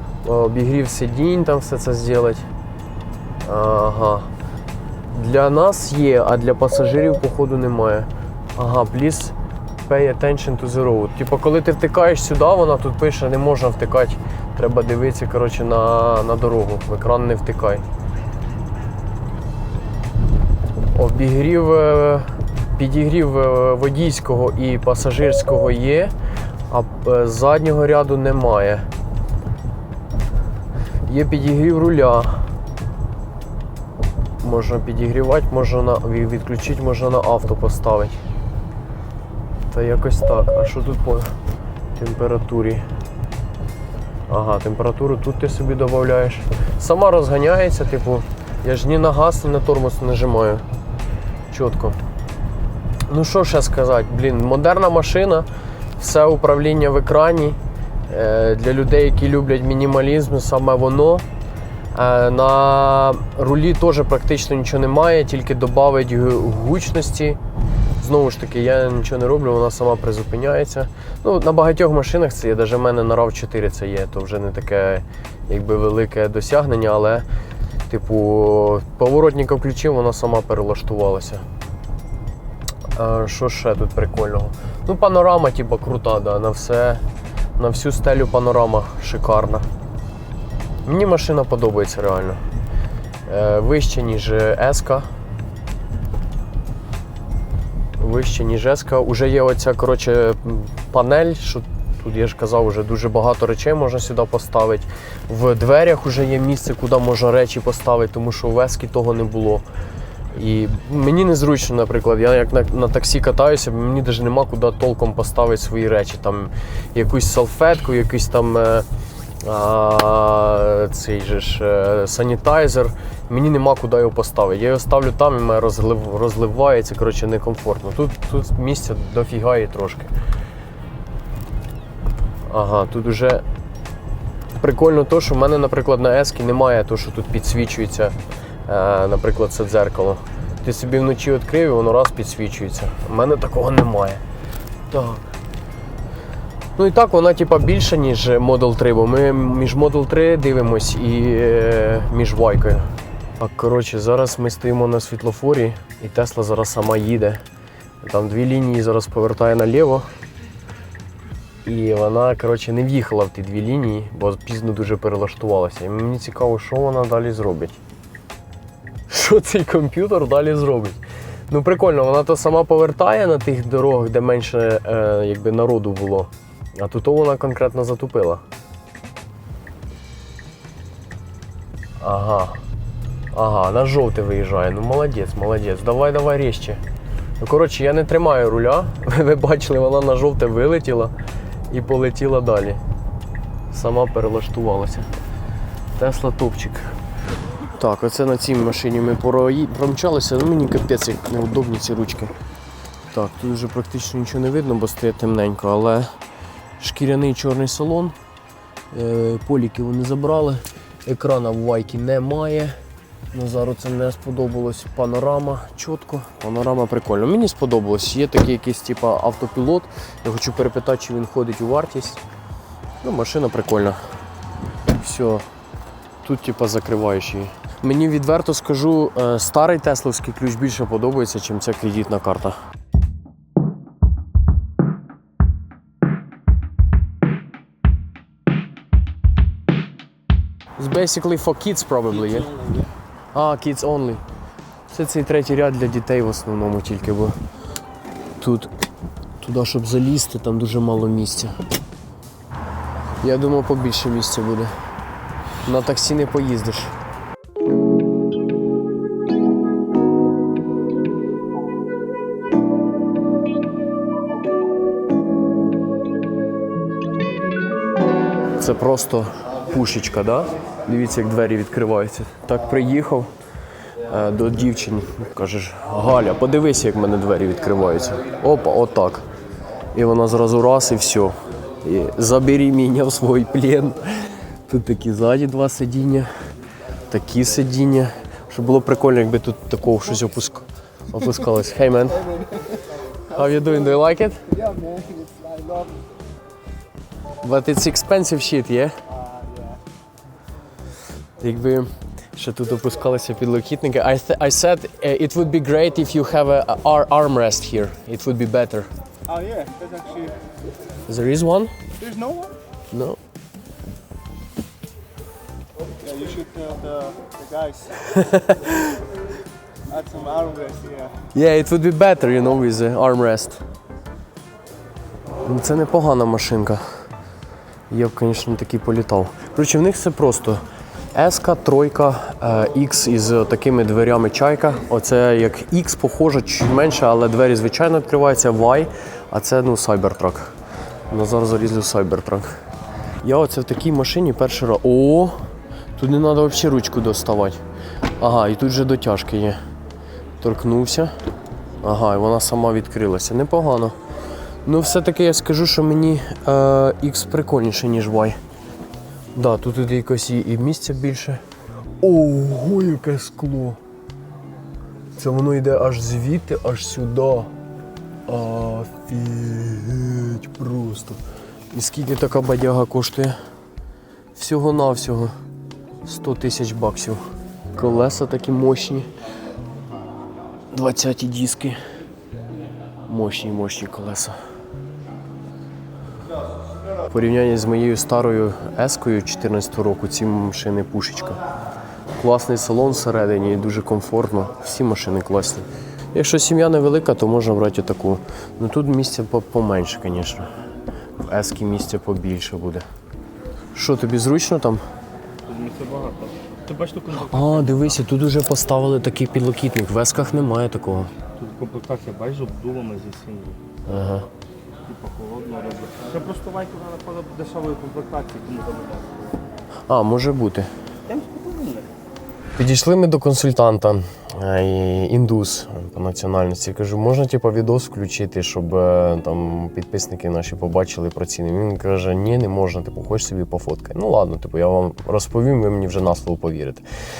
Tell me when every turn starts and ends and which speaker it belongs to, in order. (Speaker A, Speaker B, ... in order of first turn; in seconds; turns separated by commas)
Speaker A: 0.2-2.5, Speaker A: 3.4-4.3, Speaker A: 5.1-9.3, Speaker A: 9.8-17.8, Speaker A: 20.9-26.1, Speaker A: 26.7-28.9, Speaker A: 31.1-32.5, Speaker A: 34.4-38.2, Speaker A: 39.7-41.3, Speaker A: 41.9-42.8, Speaker A: 44.3-50.6, Speaker A: 51.5-52.0, Speaker A: 53.1-55.5, Speaker A: 56.0-61.2, Speaker A: 61.9-67.4, Speaker A: 68.0-77.2, Speaker A: 77.9-81.4, Speaker A: 82.9-87.0, Speaker A: 87.6-89.7, Speaker A: 90.8-92.4, Speaker A: 93.3-95.1, Speaker A: 98.0-109.6, Speaker A: 110.3-118.8, Speaker A: 119.4-130.1, Speaker A: 132.5-133.4, Speaker A: 134.6-138.2, Speaker A: 138.7-144.2, Speaker A: 144.9-145.2, Speaker A: 146.8-152.9, Speaker A: 153.4-157.4, Speaker A: 158.0-160.1, Speaker A: 161.6-167.8, Speaker A: 169.1-178.4, Speaker A: 182.0-182.6, Speaker A: 183.3-186.8, Speaker A: 187.4-191.1, Speaker A: 191.7-192.8, Speaker A: 193.7-195.1, Speaker A: 196.0-196.9, Speaker A: 197.8-202.3, Speaker A: 203.1-206.1, Speaker A: 206.8-208.2, Speaker A: 208.9-212.7, Speaker A: 213.3-222.2, Speaker A: 223.0-224.0, Speaker A: 224.9-225.4, Speaker A: 226.2-232.6, Speaker A: 240.8-242.5, Speaker B: 242.5-242.8, Speaker A: 243.3-244.2, Speaker A: 244.9-247.4, Speaker A: 248.4-248.7, Speaker A: 249.4-251.5, Speaker A: 253.2-254.7, Speaker A: 255.6-256.9, Speaker A: 268.6-273.3, Speaker A: 274.0-279.2, Speaker A: 279.9-286.3, Speaker A: 287.1-292.2, Speaker C: 292.1-296.0, Speaker A: 293.3-294.4, Speaker A: 297.4-299.0, Speaker C: 299.1-299.8, Speaker A: 301.4-308.9, Speaker C: 309.3-310.4, Speaker A: 311.1-311.7, Speaker C: 312.0-312.6, Speaker A: 312.9-313.2, Speaker C: 316.0-318.0, Speaker A: 318.0-319.0, Speaker C: 319.9-321.2, Speaker A: 321.3-323.6, Speaker A: 325.4-326.8, Speaker A: 327.9-330.6, Speaker A: 331.1-340.5, Speaker A: 341.1-342.5, Speaker A: 343.2-345.4, Speaker A: 345.9-347.6, Speaker A: 348.2-349.6, Speaker A: 350.4-351.1, Speaker A: 351.8-353.9, Speaker A: 354.6-358.4, Speaker A: 359.3-361.4, Speaker A: 362.0-363.8, Speaker A: 365.2-367.5, Speaker A: 368.3-371.2, Speaker A: 371.7-373.4, Speaker A: 374.3-375.3, Speaker A: 376.0-377.2, Speaker A: 377.7-379.1, Speaker A: 380.7-381.8, Speaker A: 383.1-384.3, Speaker A: 387.1-391.4, Speaker A: 392.2-400.5, Speaker A: 401.2-402.9, Speaker A: 403.7-404.8, Speaker B: 405.4-408.1, Speaker A: 407.3-411.1, Speaker B: 411.4-413.6, Speaker A: 413.9-414.2, Speaker B: 414.9-419.5, Speaker A: 419.9-420.7, Speaker B: 421.1-421.9, Speaker A: 422.6-436.8